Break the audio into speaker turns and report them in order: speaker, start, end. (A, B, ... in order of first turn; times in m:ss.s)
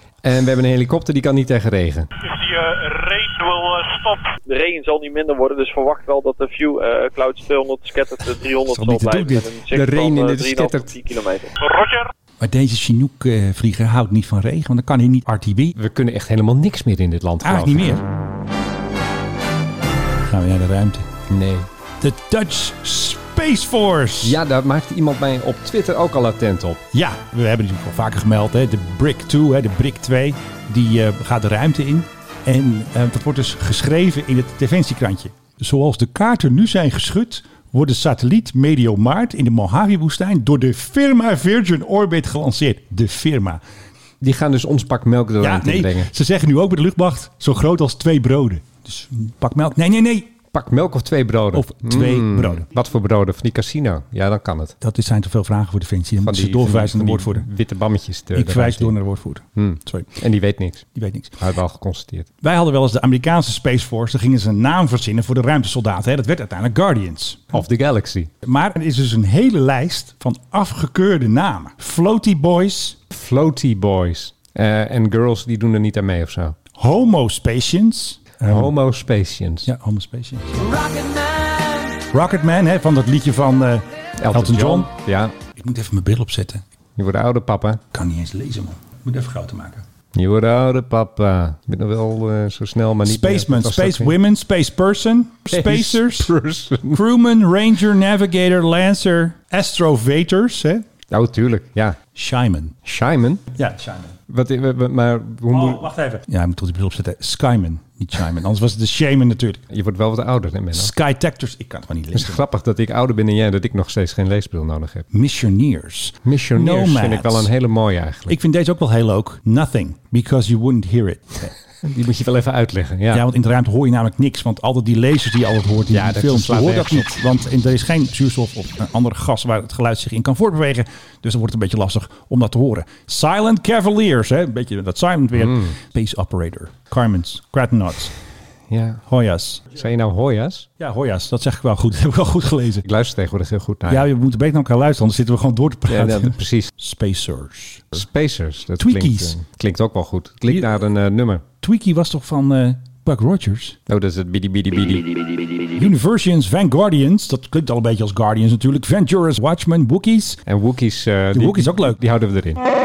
0:00.2-0:02.1 A
0:02.2-0:04.4 B
0:04.5-0:11.6 C
0:08.7-0:09.5 D
0:09.7-0:10.9 A
0:11.6-0:12.1 B
0:12.4-0:15.8 D
0:15.8-0:18.0 A
0:17.4-0:18.0 D
0:20.2-0:21.0 D
0:21.3-0:21.7 A
0:22.0-0:24.4 D
0:24.2-0:26.8 A
0:26.9-0:43.6 D
0:44.2-0:46.1 A
0:45.4-0:50.3 D
0:50.5-0:54.7 A
0:51.5-0:52.6 D
0:54.8-0:57.5 D
0:56.2-0:59.0 A
0:58.3-1:00.1 D
0:59.6-1:00.8 A
1:00.9-1:01.4 D
1:01.4-1:02.3 A
1:02.4-1:07.5 D
1:07.5-1:08.3 A
1:08.4-1:13.0 D
1:13.1-1:16.6 A
1:16.8-1:18.7 D
1:18.4-1:19.7 A
1:19.6-1:20.8 D
1:22.0-1:24.9 D
1:24.2-1:25.3 A
1:25.6-1:26.6 D
1:27.0-1:27.8 A
1:27.9-1:29.8 D
1:30.1-1:34.2 A
1:33.0-1:36.3 D
1:35.5-1:37.0 A
1:36.9-1:40.8 D
1:41.1-1:42.0 A
1:42.1-1:42.7 D
1:42.8-1:43.4 A
1:43.6-1:44.1 D
1:44.3-1:45.9 A
1:45.5-1:49.6 D
1:49.7-1:50.9 A
1:50.7-1:52.4 D
1:52.1-1:55.0 A
1:55.1-1:57.5 D
1:56.2-1:58.4 A
1:58.3-2:01.5 D
2:01.8-2:03.2 A
2:03.1-2:18.1 D
2:05.9-2:07.2 A
2:15.4-2:15.7 A
2:18.7-2:19.0 A
2:19.1-2:19.7 D
2:19.7-2:20.7 A
2:20.8-2:22.8 D
2:22.8-2:24.1 A
2:23.9-2:27.9 D
2:25.9-2:26.7 A
2:27.9-2:31.4 A
2:28.8-2:29.4 D
2:31.6-2:33.8 D
2:33.9-2:35.3 A
2:35.7-2:40.4 D
2:40.4-2:42.6 A
2:41.3-2:42.0 D